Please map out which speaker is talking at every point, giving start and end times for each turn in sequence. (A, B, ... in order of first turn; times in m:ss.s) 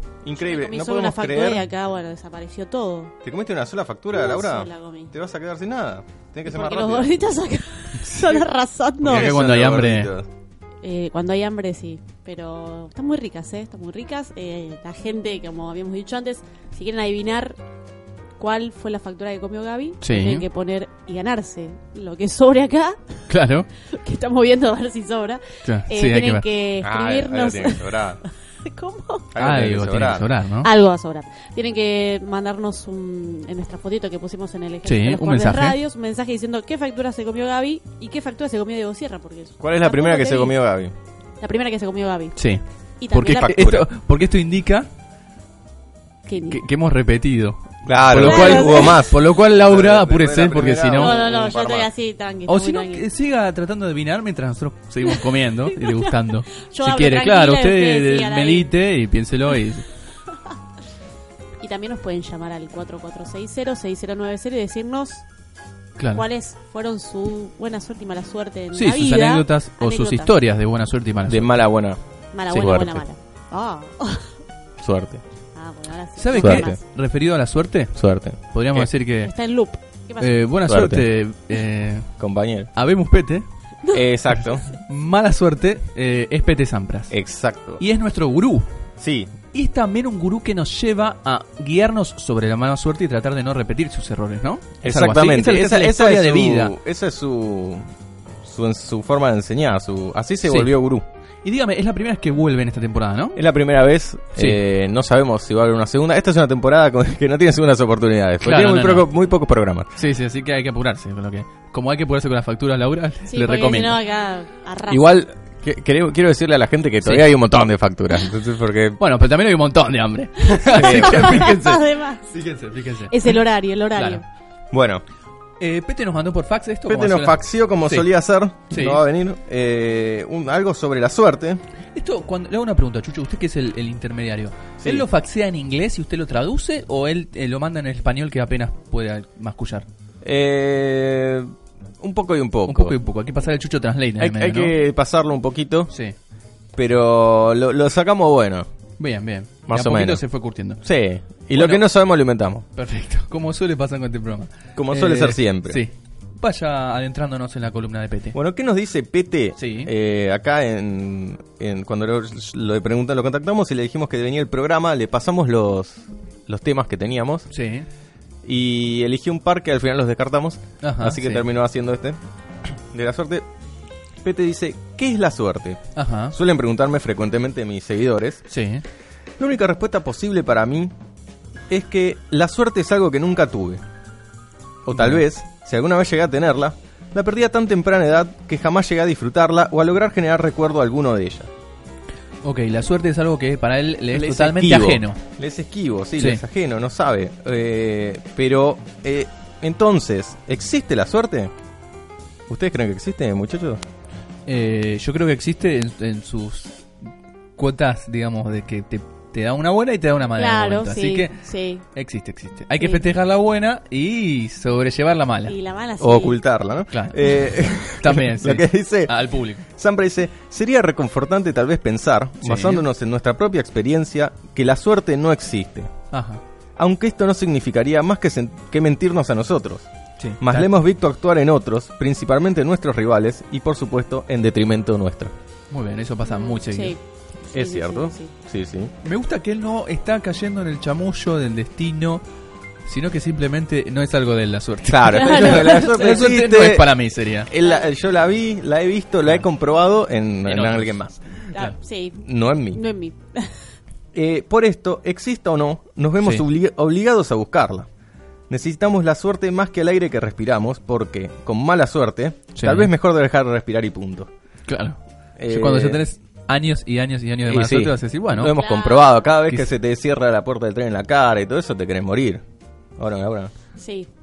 0:00.2-0:01.7 A
0:00.4-0:03.1 B
0:03.2-0:07.1 A
0:04.1-0:05.1 B
0:06.5-0:09.3 B
0:09.0-0:10.3 A
0:09.0-0:10.1 C
0:10.8-0:17.6 B
0:18.4-0:23.2 B
0:20.0-0:20.4 C
0:23.3-0:23.7 C
0:23.8-0:29.3 B
0:25.6-0:26.4 C
0:26.8-0:28.2 A
0:29.4-0:30.3 A
0:29.4-0:30.7 C
0:30.6-0:40.6 B
0:34.8-0:35.8 C
0:39.6-0:40.9 A
0:41.4-0:42.4 B
0:42.4-0:42.6 C
0:43.0-0:43.6 B
0:43.1-0:43.9 A
0:43.4-0:44.9 C
0:46.3-0:46.6 B
0:46.5-0:51.2 C
0:47.9-0:51.9 A
0:48.2-0:49.1 B
0:51.0-0:53.1 B
0:52.5-0:59.9 C
0:55.0-0:58.7 B
1:01.6-1:05.2 B
1:06.0-1:06.2 C
1:06.1-1:10.4 B
1:08.8-1:11.6 C
1:11.3-1:13.0 A
1:12.3-1:14.3 B
1:14.8-1:15.2 A
1:15.6-1:16.8 B
1:16.2-1:18.0 C
1:16.3-1:16.8 A
1:18.0-1:18.9 A
1:18.5-1:19.3 C
1:19.2-1:20.4 B
1:20.2-1:22.1 C
1:20.7-1:21.1 A
1:22.2-1:22.7 A
1:22.8-1:23.4 C
1:23.9-1:24.7 A
1:24.3-1:27.2 C
1:27.1-1:27.8 A
1:27.8-1:28.7 C
1:29.0-1:29.4 A
1:29.5-1:36.8 C
1:34.8-1:37.9 A
1:38.4-1:41.0 A
1:40.4-1:40.7 C
1:41.4-1:43.4 C
1:43.4-1:49.9 A
1:48.4-1:49.1 C
1:50.0-1:54.0 C
1:53.3-1:55.2 B
1:54.9-1:59.0 A
1:57.0-1:57.7 C
1:59.0-2:03.4 C
2:00.6-2:01.5 A
2:00.6-2:02.3 B
2:03.1-2:04.2 B
2:04.0-2:04.2 C
2:04.7-2:05.0 A
2:05.6-2:08.1 C
2:06.9-2:11.6 A
2:08.7-2:09.0 C
2:12.0-2:19.9 C
2:14.8-2:15.1 A
2:20.2-2:23.0 A
2:22.7-2:24.8 C
2:24.2-2:25.9 A
2:26.8-2:28.7 A
2:29.0-2:30.8 C
2:29.7-2:30.2 A
2:30.8-2:32.6 A
2:31.6-2:31.9 C
2:32.8-2:38.4 C
2:34.8-2:35.8 A
2:38.3-2:47.5 A
2:39.6-2:39.9 C
2:47.5-2:47.9 C
2:48.4-2:52.2 A
2:50.8-2:51.4 C
2:52.9-2:53.5 A
2:54.2-2:55.8 A
2:56.0-2:56.4 C
2:56.3-2:58.4 A
2:58.5-2:58.8 C
2:59.4-3:00.9 A
3:01.7-3:03.8 A
3:04.8-3:11.5 A
3:04.9-3:05.2 C
3:12.4-3:15.2 C
3:14.1-3:21.5 A
3:16.2-3:16.4 C
3:22.5-3:23.8 A
3:24.5-3:26.8 C
3:27.6-3:31.4 C
3:30.4-3:31.8 B
3:32.0-3:35.5 C
3:32.8-3:33.0 B
3:35.5-3:36.4 B
3:36.0-3:45.9 A
3:36.9-3:39.6 C
3:42.4-3:42.8 C
3:46.1-3:46.4 C
3:46.8-3:49.9 A
3:50.2-3:50.7 C
3:50.4-3:55.3 A
3:55.7-3:57.0 C
3:56.2-3:58.3 B
3:57.5-3:58.9 A
3:59.0-4:02.2 C
4:02.9-4:07.5 C
4:04.8-4:07.0 A
4:05.1-4:06.2 B
4:07.5-4:11.5 A
4:10.5-4:11.0 C
4:11.5-4:13.6 B
4:12.2-4:12.8 A
4:14.1-4:17.9 A
4:18.5-4:24.3 A
4:22.6-4:22.9 C
4:24.7-4:28.6 C
4:25.4-4:26.0 A
4:27.4-4:32.4 A
4:28.5-4:29.3 B
4:33.0-4:33.5 A
4:33.8-4:34.1 B